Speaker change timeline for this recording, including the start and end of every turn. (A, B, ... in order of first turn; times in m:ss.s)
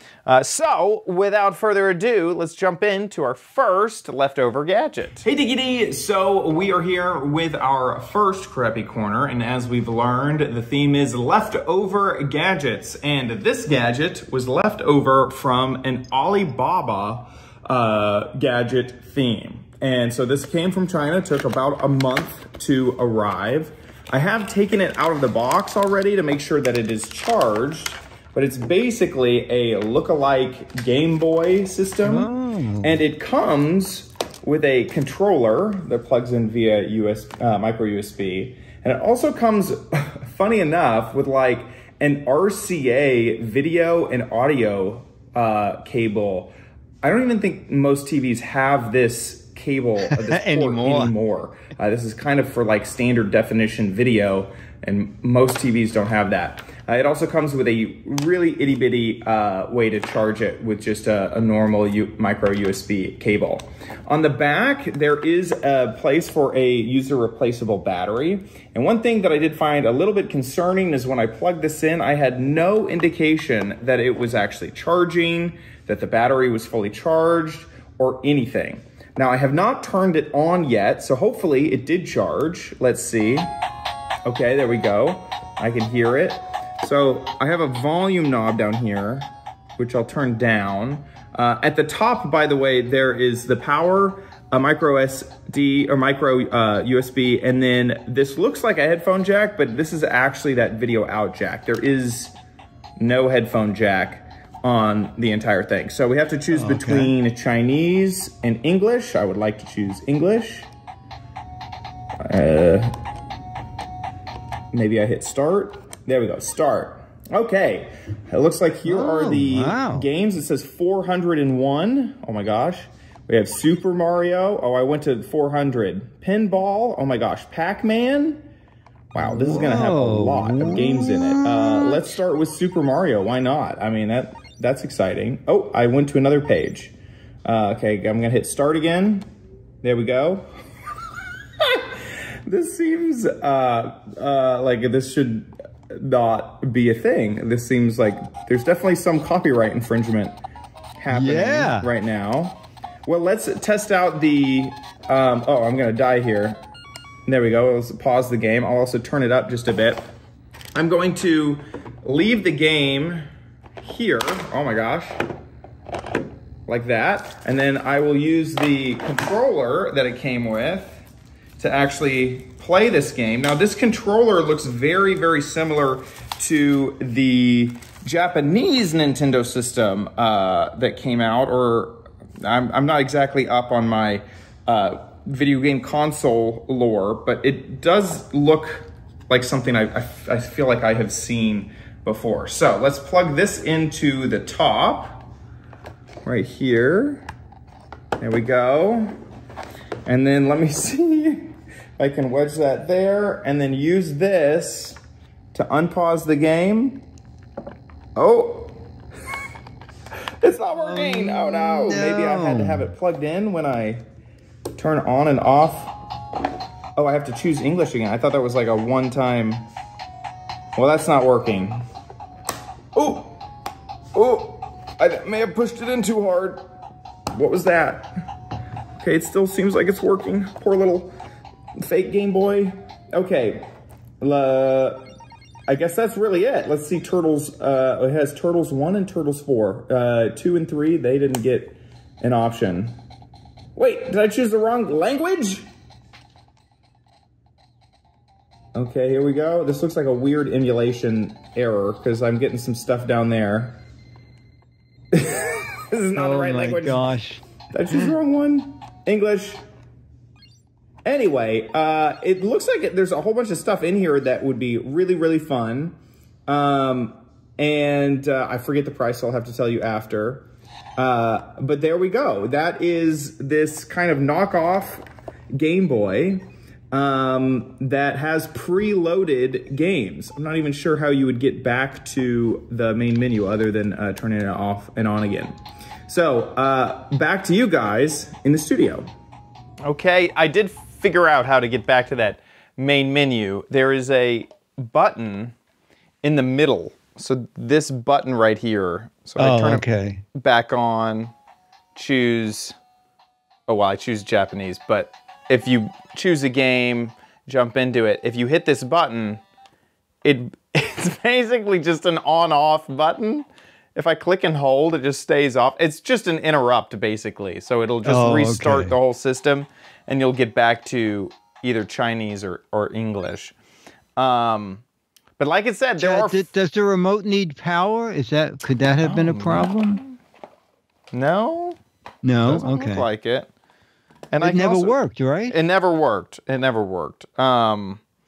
0:00.3-0:32.3 A
0:32.0-0:33.0 B
0:32.8-1:23.5 A
0:50.1-0:51.2 B
1:24.2-1:42.4 A
1:43.0-1:50.7 A
1:46.5-1:47.1 B
1:52.2-1:52.9 A
1:54.7-2:08.5 A
1:58.9-2:00.1 B
2:09.1-2:16.9 A
2:09.2-2:12.1 B
2:17.4-2:19.3 A
2:19.8-2:20.5 A
2:21.6-2:21.9 A
2:22.5-2:30.4 A
2:31.0-2:36.6 A
2:31.1-2:31.9 B
2:37.3-2:40.0 A
2:40.8-2:43.3 A
2:43.8-2:45.2 A
2:46.7-2:51.0 A
2:51.6-3:15.3 A
3:16.2-3:17.2 A
3:18.2-3:19.1 A
3:20.1-3:25.0 A
3:25.5-3:27.0 A
3:28.2-3:28.8 A
3:30.4-3:34.0 A
3:30.7-3:32.9 B
3:34.8-3:36.0 A
3:37.0-3:39.7 A
3:40.8-3:41.8 A
3:43.0-3:43.4 A
3:44.2-3:46.7 A
3:47.3-3:48.1 A
3:49.0-3:51.1 A
3:51.8-3:53.7 A
3:54.2-3:55.1 A
3:55.7-4:03.0 A
4:03.8-4:05.7 A
4:08.8-4:13.8 A
4:15.1-4:17.0 A
4:16.2-4:18.1 B
4:17.7-4:19.6 A
4:21.0-4:35.0 A
4:35.5-4:45.6 A
4:46.1-4:49.1 A
4:49.8-4:55.6 A
4:56.2-5:01.3 A
4:59.4-5:00.2 B
5:02.0-5:02.8 A
5:03.7-5:09.4 A
5:10.2-5:23.5 A
5:18.0-5:19.0 B
5:24.2-5:24.8 A
5:25.4-5:26.4 A
5:26.0-5:30.0 B
5:29.0-5:30.2 A
5:31.1-5:31.8 A
5:32.2-5:33.1 B
5:32.4-5:33.5 A
5:34.3-5:38.0 A
5:34.4-5:35.6 B